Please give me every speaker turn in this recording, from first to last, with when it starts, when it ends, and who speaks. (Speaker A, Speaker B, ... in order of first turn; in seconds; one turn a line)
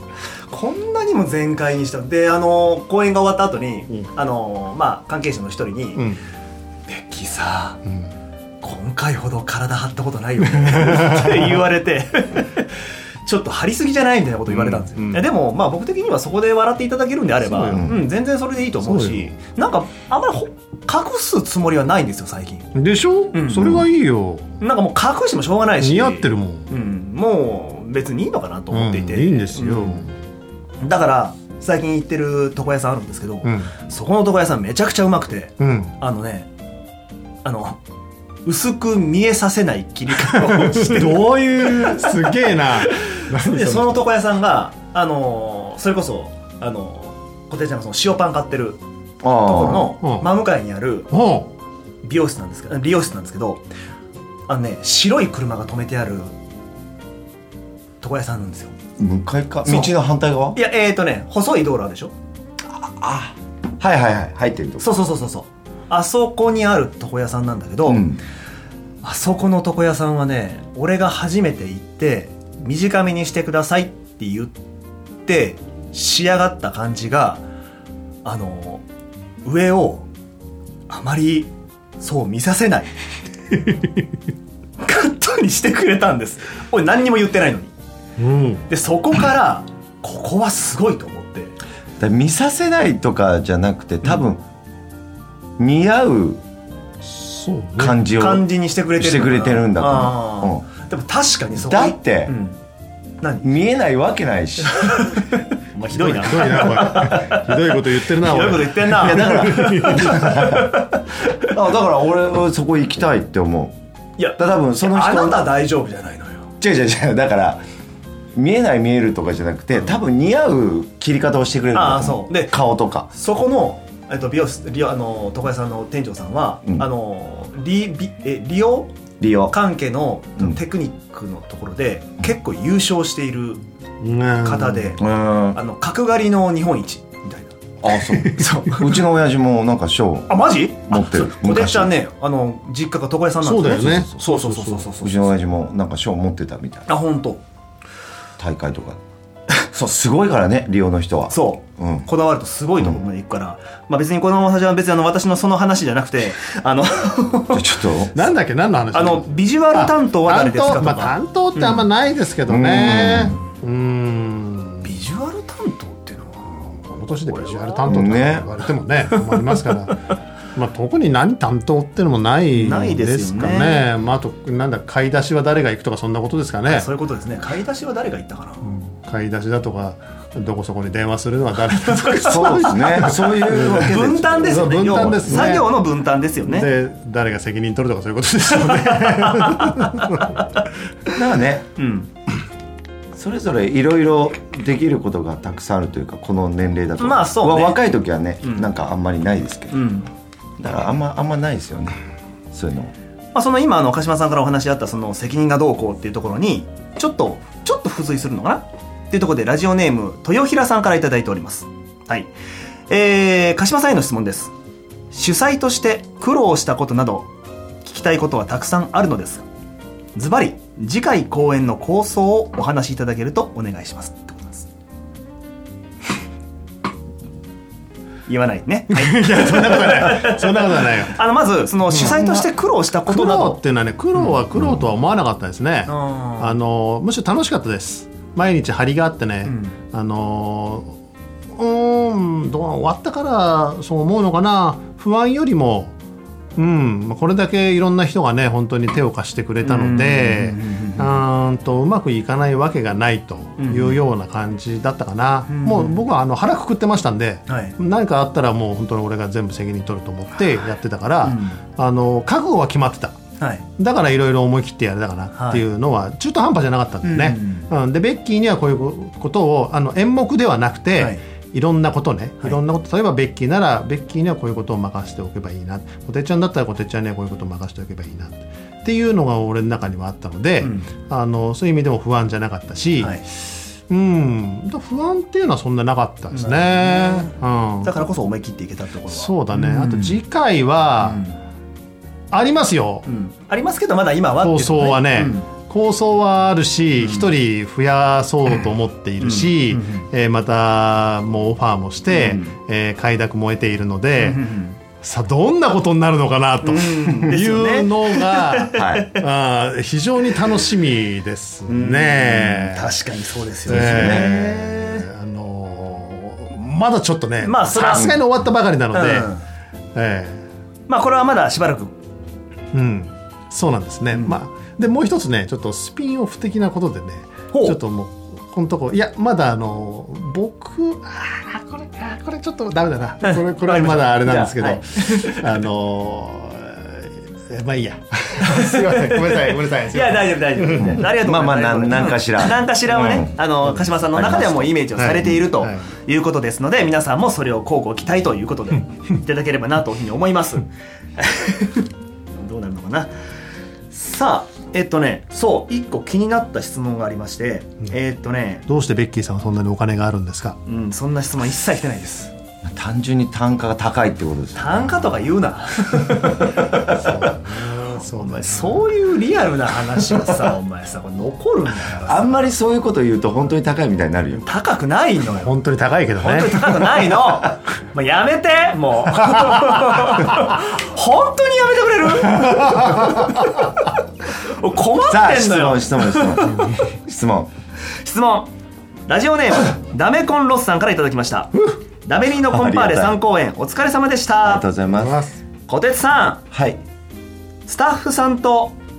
Speaker A: 0.5-6.1
Speaker A: 6.9-7.8
Speaker B: 7.8-8.1
Speaker A: 8.6-22.7
Speaker B: 10.6-11.5
Speaker B: 14.5-15.2
Speaker B: 17.4-18.0
Speaker C: 17.7-18.0
Speaker B: 18.8-19.4
Speaker B: 22.8-24.5
Speaker A: 23.3-23.9
Speaker A: 24.6-30.1
Speaker B: 25.8-26.7
Speaker B: 28.7-30.1
Speaker A: 30.8-36.5
Speaker B: 33.4-33.7
Speaker B: 35.6-36.0
Speaker A: 37.4-37.8
Speaker A: 38.5-48.8
Speaker B: 40.2-44.1
Speaker C: 40.9-41.9
Speaker C: 49.2-49.9
Speaker A: 49.4-51.1
Speaker B: 50.0-50.3
Speaker B: 51.1-51.5
Speaker A: 52.0-53.6
Speaker A: 54.5-56.3
Speaker A: 58.0-58.7
Speaker C: 59.0-60.6
Speaker A: 59.6-59.9
Speaker A: 60.5-62.1
Speaker C: 62.7-64.8
Speaker A: 64.8-68.1
Speaker C: 67.9-68.2
Speaker A: 69.0-74.5
Speaker A: 75.2-77.4
Speaker A: 78.2-78.8
Speaker A: 79.4-80.1
Speaker A: 80.9-82.9
Speaker B: 83.5-84.0
Speaker A: 84.8-87.7
Speaker B: 88.2-88.7
Speaker A: 88.7-91.5
Speaker C: 92.0-94.4
Speaker C: 95.6-96.4
Speaker B: 97.0-98.0
Speaker C: 97.8-100.7
Speaker A: 98.1-102.6
Speaker C: 101.5-102.3
Speaker A: 103.2-103.5
Speaker C: 103.4-105.1
Speaker A: 104.8-111.1
Speaker B: 105.9-110.6
Speaker C: 108.8-113.8
Speaker A: 114.2-116.5
Speaker C: 114.4-115.5
Speaker C: 116.6-117.6
Speaker C: 118.3-123.1
Speaker A: 121.7-122.5
Speaker A: 123.1-128.9
Speaker C: 129.2-129.5
Speaker A: 129.5-133.6
Speaker B: 134.0-134.9
Speaker A: 134.4-137.6
Speaker C: 135.0-135.6
Speaker C: 137.8-140.3
Speaker B: 138.0-138.7
Speaker A: 138.3-138.9
Speaker A: 140.3-145.3
Speaker C: 140.9-141.9
Speaker B: 143.4-144.9
Speaker C: 143.7-144.2
Speaker C: 145.0-146.9
Speaker A: 146.9-147.4
Speaker C: 148.4-149.0
Speaker C: 149.7-152.1
Speaker A: 151.3-157.7
Speaker C: 157.5-158.1
Speaker B: 158.1-164.9
Speaker A: 158.9-161.9
Speaker C: 162.5-163.4
Speaker A: 164.8-166.7
Speaker B: 166.6-176.9
Speaker A: 167.3-167.8
Speaker C: 167.9-168.5
Speaker A: 169.3-169.6
Speaker A: 172.5-173.9
Speaker A: 176.7-178.7
Speaker B: 178.6-185.7
Speaker A: 181.7-182.8
Speaker C: 182.2-185.6
Speaker A: 183.5-186.7
Speaker B: 186.4-190.4
Speaker A: 188.6-190.5
Speaker C: 191.1-191.7
Speaker A: 191.8-192.1
Speaker C: 193.2-199.8
Speaker A: 197.0-197.8
Speaker A: 198.4-198.7
Speaker A: 199.7-200.1
Speaker C: 200.6-202.0
Speaker C: 202.5-202.9
Speaker A: 203.3-212.3
Speaker A: 212.9-214.5
Speaker A: 215.1-217.3
Speaker A: 217.8-219.5
Speaker A: 220.2-224.7
Speaker A: 228.3-233.6
Speaker B: 228.9-231.2
Speaker B: 231.9-232.5
Speaker B: 233.1-240.9
Speaker A: 234.2-234.4
Speaker C: 234.6-234.8
Speaker A: 235.9-236.6
Speaker A: 239.4-239.8
Speaker B: 241.6-245.9
Speaker B: 246.6-263.1
Speaker A: 249.6-251.2
Speaker A: 253.6-254.0
Speaker A: 255.5-256.0
Speaker A: 257.5-257.8
Speaker A: 261.2-261.6
Speaker A: 263.4-263.6
Speaker B: 263.8-288.1
Speaker A: 265.4-265.6
Speaker A: 267.0-267.7
Speaker A: 271.0-271.2
Speaker A: 280.6-280.9
Speaker A: 286.3-290.2
Speaker B: 289.1-291.2
Speaker A: 291.0-291.4
Speaker B: 292.3-293.1
Speaker A: 293.1-295.5
Speaker B: 294.4-304.4
Speaker A: 297.0-297.3
Speaker A: 299.2-300.1
Speaker A: 302.1-302.5
Speaker A: 304.2-304.8
Speaker B: 305.0-313.0
Speaker A: 306.6-309.1
Speaker C: 308.7-309.1
Speaker A: 311.7-315.1
Speaker B: 313.7-319.3
Speaker C: 313.7-314.5
Speaker A: 317.4-318.2
Speaker A: 318.9-319.4
Speaker B: 319.9-320.4
Speaker A: 320.9-321.9
Speaker B: 322.7-341.2
Speaker A: 324.1-324.4
Speaker A: 327.5-327.8
Speaker A: 333.2-335.5
Speaker A: 338.5-353.1
Speaker C: 340.8-343.4
Speaker C: 344.1-344.8
Speaker B: 345.0-345.9
Speaker A: 353.9-358.7
Speaker B: 358.7-360.6
Speaker A: 360.7-362.3
Speaker C: 362.6-365.3
Speaker A: 364.6-366.7
Speaker B: 366.9-368.9
Speaker A: 367.7-372.5
Speaker C: 372.1-374.4
Speaker A: 374.4-375.6
Speaker B: 375.3-377.1
Speaker A: 376.2-386.7
Speaker B: 382.4-383.2
Speaker C: 385.1-387.5
Speaker A: 388.0-388.5
Speaker A: 389.1-394.6
Speaker C: 392.5-393.2
Speaker C: 394.4-395.2
Speaker B: 394.9-395.4
Speaker A: 395.7-396.4
Speaker C: 396.5-396.8
Speaker A: 397.7-398.8